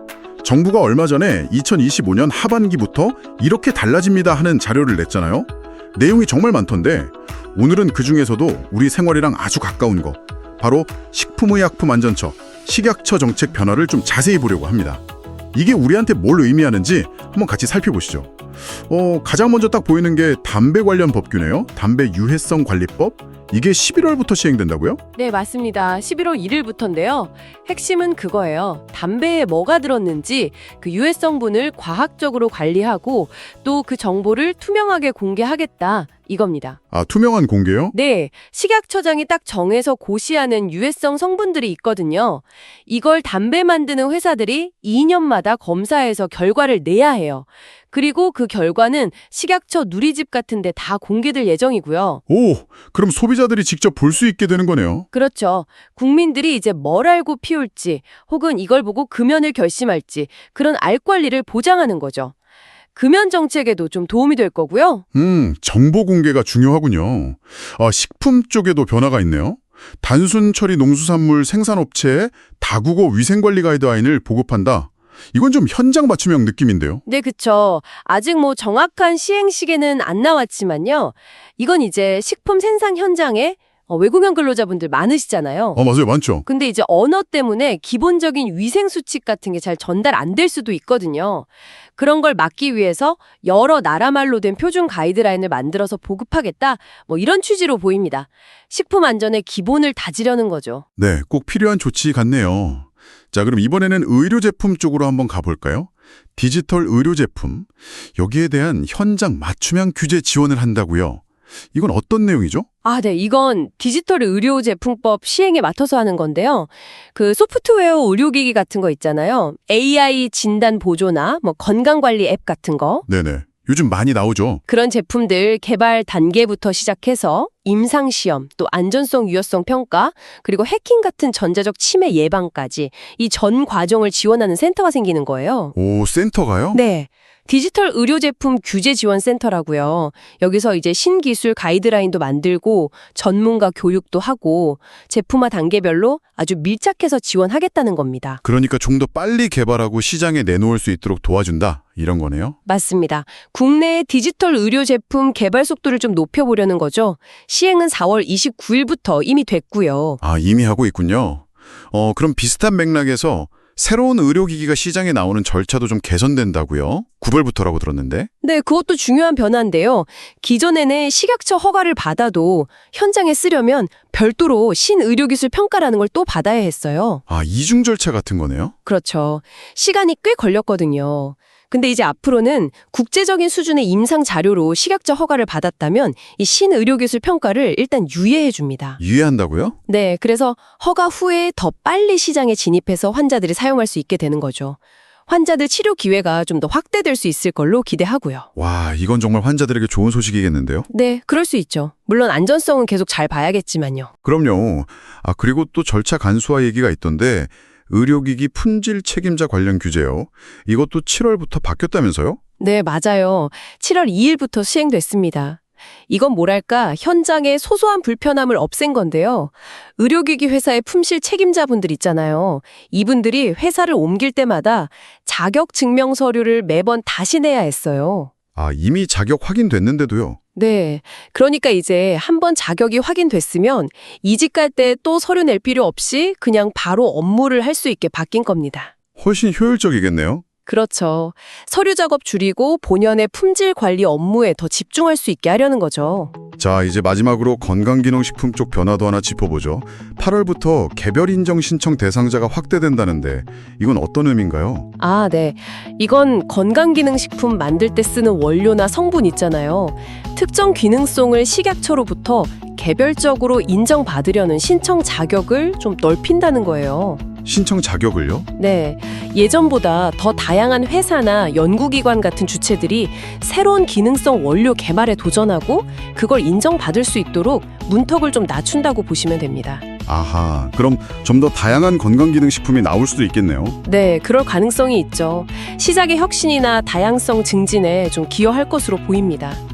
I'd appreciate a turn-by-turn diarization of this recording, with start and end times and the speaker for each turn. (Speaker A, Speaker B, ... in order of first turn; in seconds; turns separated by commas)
Speaker A: 0.4-15.0, Speaker A: 15.5-18.3, Speaker A: 18.9-25.0, Speaker B: 25.2-36.8, Speaker A: 36.9-37.9, Speaker B: 37.9-52.2, Speaker A: 52.3-55.1, Speaker B: 55.1-62.3, Speaker B: 63.0-65.0, Speaker A: 65.1-77.0, Speaker B: 77.1-85.8, Speaker A: 85.8-86.5, Speaker B: 86.5-100.8, Speaker A: 101.0-112.7, Speaker B: 112.8-123.0, Speaker A: 123.1-124.6, Speaker B: 124.7-135.8, Speaker A: 135.8-136.8, Speaker B: 136.7-148.4, Speaker A: 148.4-152.6, Speaker B: 152.7-160.2, Speaker A: 160.2-168.3, Speaker B: 168.4-177.2, Speaker A: 177.3-178.7, Speaker B: 178.8-189.0, Speaker A: 189.0-189.8, Speaker B: 189.9-198.5, Speaker A: 198.6-200.9, Speaker B: 200.9-204.1, Speaker A: 204.2-212.4, Speaker B: 212.6-228.3, Speaker A: 228.5-230.4, Speaker B: 230.6-238.9, Speaker A: 239.2-240.4, Speaker B: 240.7-246.3, Speaker A: 246.6-254.9, Speaker B: 255.0-267.2, Speaker A: 267.4-268.5, Speaker B: 268.6-279.8, Speaker A: 280.1-283.8, Speaker B: 283.8-289.6